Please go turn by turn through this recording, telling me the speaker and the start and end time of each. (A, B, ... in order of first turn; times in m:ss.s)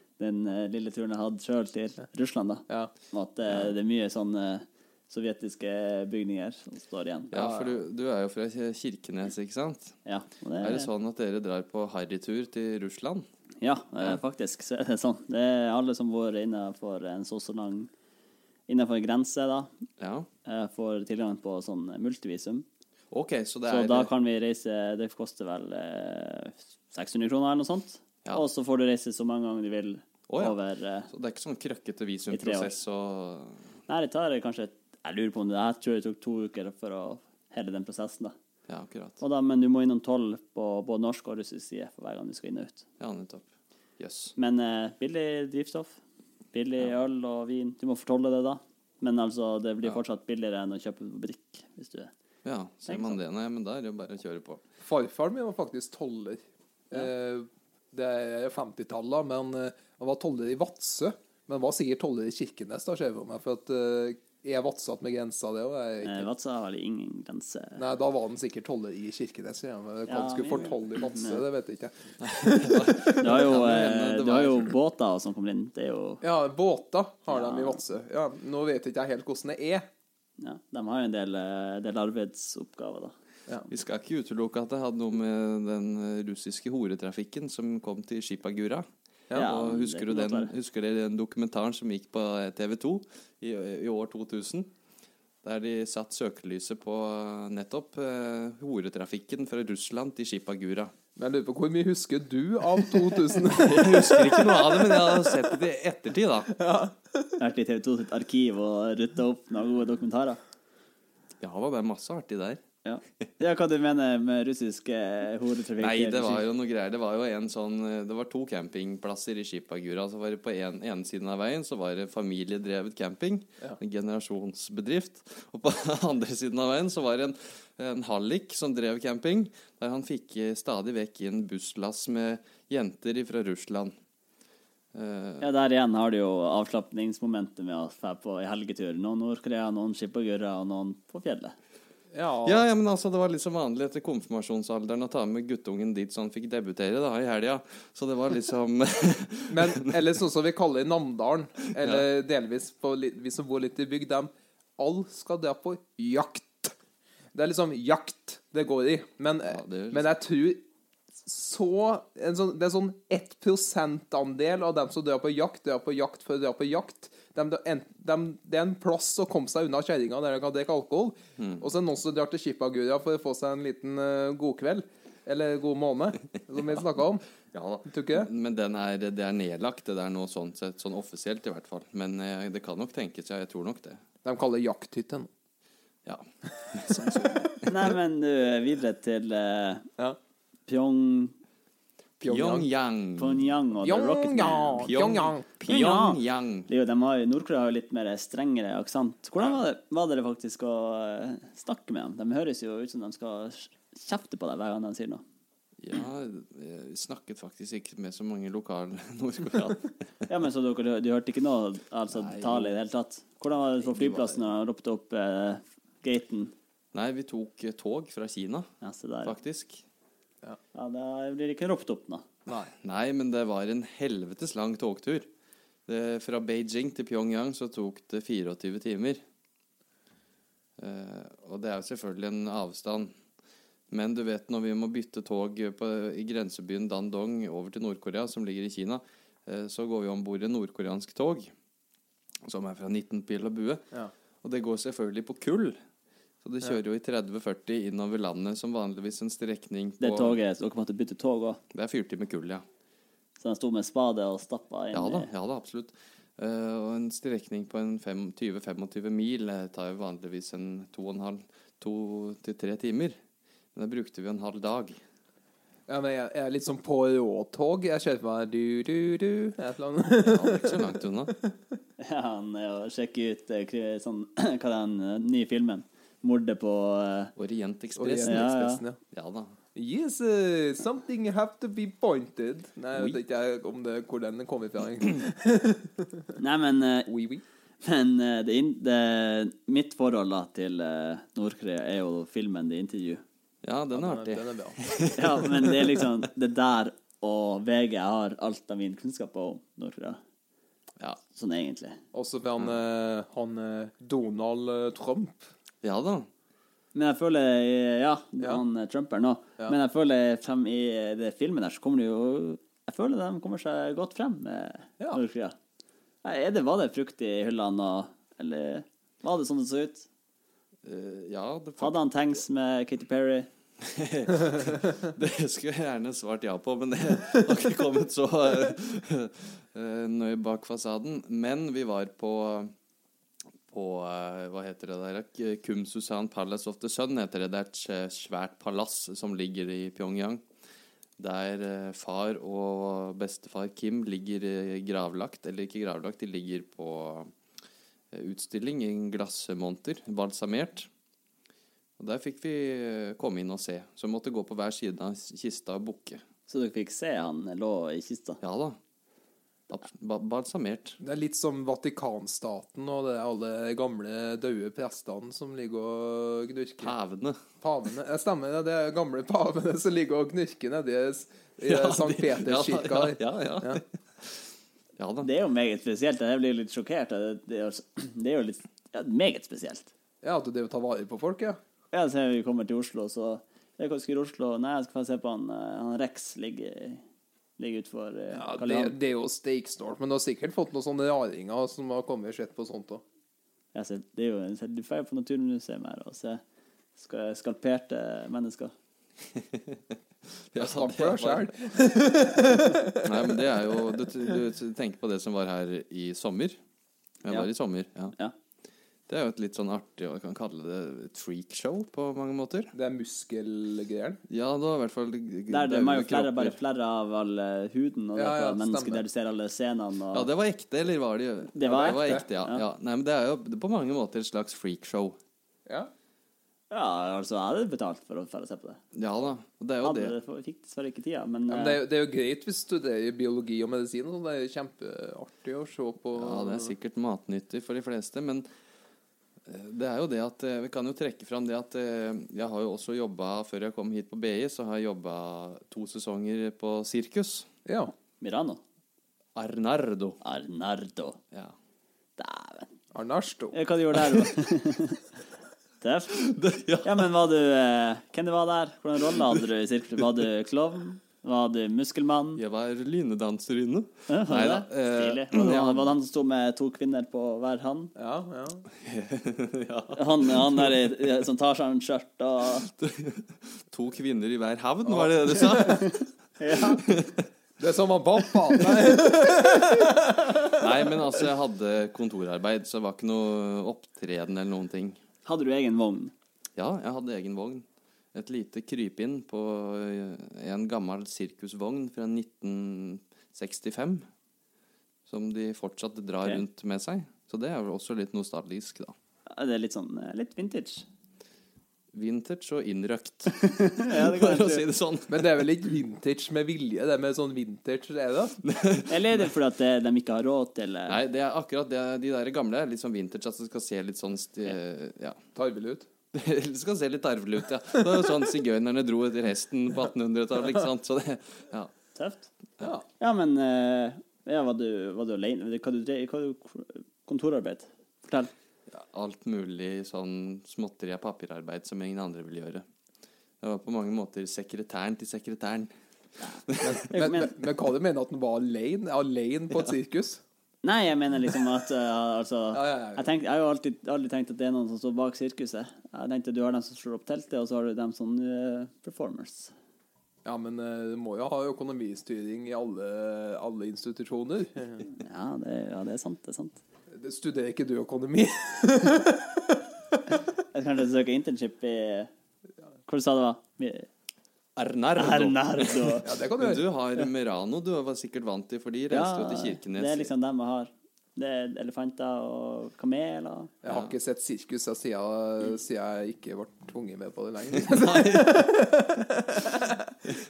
0:00.2-0:07.7 A
0:07.3-0:10.0 B
0:10.0-0:10.9 A
0:10.6-0:13.2 B
0:13.6-0:17.9 A
0:18.7-0:19.7 A
0:20.0-0:20.3 B
0:20.4-0:22.6 A
0:23.1-0:24.1 B
0:23.7-0:31.1 A
0:30.3-0:30.6 B
0:31.1-0:33.6 B
0:32.3-0:32.7 A
0:33.9-0:38.3 A
0:38.7-0:39.2 B
0:39.2-0:42.8 A
0:43.0-0:43.4 B
0:44.0-0:44.3 B
0:44.4-0:46.0 A
0:46.5-0:52.1 A
0:52.4-0:54.6 B
0:52.9-0:53.2 A
0:54.8-1:06.3 C
1:06.0-1:07.8 A
1:07.8-1:13.2 C
1:10.1-1:11.4 A
1:12.2-1:14.7 B
1:13.2-1:16.2 A
1:16.2-1:19.8 C
1:17.3-1:17.8 A
1:20.4-1:23.1 A
1:23.7-1:34.7 B
1:29.3-1:30.5 A
1:35.4-1:40.9 B
1:41.2-1:45.6 C
1:43.5-1:46.5 B
1:46.5-1:47.3 C
1:47.4-1:50.4 A
1:51.4-1:52.6 B
1:52.8-1:56.4 A
1:55.8-2:13.9 B
2:14.9-2:15.5 B
2:15.4-2:21.5 A
2:22.1-2:22.6 C
2:22.4-2:30.0 B
2:29.5-2:36.7 C
2:31.8-2:32.0 B
2:37.3-2:40.6 C
2:39.5-2:40.1 B
2:41.2-2:57.2 C
2:51.4-2:51.6 B
2:57.5-3:04.0 B
2:57.8-2:58.3 C
3:04.2-3:05.3 C
3:06.0-3:07.9 B
3:07.6-3:09.9 A
3:10.7-3:11.4 A
3:12.2-3:13.5 B
3:12.2-3:12.7 C
3:13.2-3:14.9 A
3:13.8-3:15.4 C
3:14.8-3:16.7 B
3:15.6-3:25.2 A
3:25.8-3:29.9 B
3:30.3-3:36.5 A
3:32.1-3:32.8 B
3:33.8-3:34.4 B
3:36.9-3:38.7 B
3:38.8-3:39.3 A
3:39.2-3:39.8 B
3:40.7-3:42.2 A
3:42.8-3:45.3 B
3:45.9-3:49.2 B
3:50.8-3:53.1 B
3:53.9-4:01.5 B
4:02.4-4:03.8 B
4:04.4-4:05.8 B
4:06.4-4:10.4 B
4:10.0-4:11.6 A
4:11.7-4:12.6 B
4:13.4-4:15.3 A
4:14.9-4:23.2 B
4:23.7-4:25.0 B
4:25.9-4:31.5 C
4:30.2-4:31.4 B
4:32.0-4:37.3 A
4:37.4-4:39.6 B
4:38.0-4:39.0 C
4:38.2-4:38.8 A
4:39.7-4:46.3 C
4:46.4-4:47.1 A
4:47.1-4:47.4 C
4:47.8-4:53.2 A
4:53.6-4:56.0 B
4:53.9-4:54.8 C
4:55.2-5:00.2 A
5:01.3-5:02.0 A
5:02.1-5:05.4 C
5:05.8-5:06.3 B
5:06.9-5:15.6 A
5:16.2-5:20.1 A
5:20.8-5:22.0 B
5:21.8-5:23.5 A
5:23.8-5:32.7 B
5:33.7-5:40.4 B
5:41.2-5:47.3 B
5:48.1-5:50.9 B
5:52.0-5:56.2 B
5:56.5-5:58.4 A
5:58.4-5:58.8 B
5:59.7-6:01.0 B
6:01.0-6:06.9 C
6:06.8-6:07.4 B
6:07.6-6:13.8 C
6:11.6-6:14.4 B
6:15.0-6:15.3 B
6:15.2-6:19.9 A
6:20.2-6:21.6 C
6:21.9-6:27.0 A
6:27.6-6:28.9 A
6:28.3-6:33.0 C
6:33.7-6:36.4 A
6:37.0-6:38.7 A
6:39.3-6:39.8 B
6:40.5-6:41.5 B
6:40.5-6:43.8 C
6:43.0-6:46.6 B
6:47.2-6:48.1 B
6:49.1-6:52.7 B
6:52.7-6:54.2 C
6:54.3-6:56.6 B
6:55.5-7:00.3 A
6:58.1-6:59.0 C
7:00.1-7:05.2 B
7:01.5-7:02.6 A
7:01.6-7:02.2 C
7:05.6-7:05.9 C
7:06.7-7:08.8 A
7:08.9-7:10.1 B
7:09.8-7:11.8 A
7:11.5-7:16.7 C
7:16.2-7:18.4 B
7:19.4-7:27.5 B
7:27.6-7:27.9 C
7:28.2-7:28.6 A
7:29.4-7:30.2 B
7:30.2-7:31.2 A
7:32.2-7:32.7 A
7:32.9-7:33.6 C
7:33.5-7:35.0 A
7:35.8-7:36.2 A
7:36.1-7:37.0 B
7:36.8-7:42.4 A
7:42.4-7:45.9 B
7:44.1-7:47.9 A
7:48.0-7:48.6 C
7:48.8-7:50.7 B
7:49.9-7:52.7 A
7:52.7-7:56.0 B
7:54.8-7:55.7 C
7:55.5-7:56.8 A
7:56.7-7:57.2 B
7:57.6-8:00.7 C
8:00.4-8:05.0 B
8:05.2-8:06.1 A
8:06.6-8:14.0 B
8:15.1-8:18.9 B
8:19.3-8:20.8 A
8:21.9-8:25.3 B
8:23.3-8:24.6 A
8:25.1-8:28.4 C
8:28.4-8:29.2 B
8:28.9-8:31.0 A
8:30.9-8:35.2 B
8:35.3-8:35.9 C
8:36.1-8:41.7 B
8:41.9-8:42.3 A
8:43.0-8:48.3 A
8:48.7-8:52.6 B
8:53.4-8:55.7 B
8:56.2-8:57.3 A
8:56.5-8:56.9 B
8:56.6-9:00.2 C
9:00.6-9:09.5 A
9:02.5-9:03.1 C
9:10.2-9:14.8 C
9:14.9-9:16.6 A
9:16.9-9:19.9 C
9:20.5-9:22.1 A
9:22.9-9:23.9 A
9:24.6-9:30.1 B
9:25.0-9:26.1 A
9:26.0-9:26.6 C
9:28.9-9:33.5 A
9:33.6-9:39.9 C
9:37.6-9:38.5 B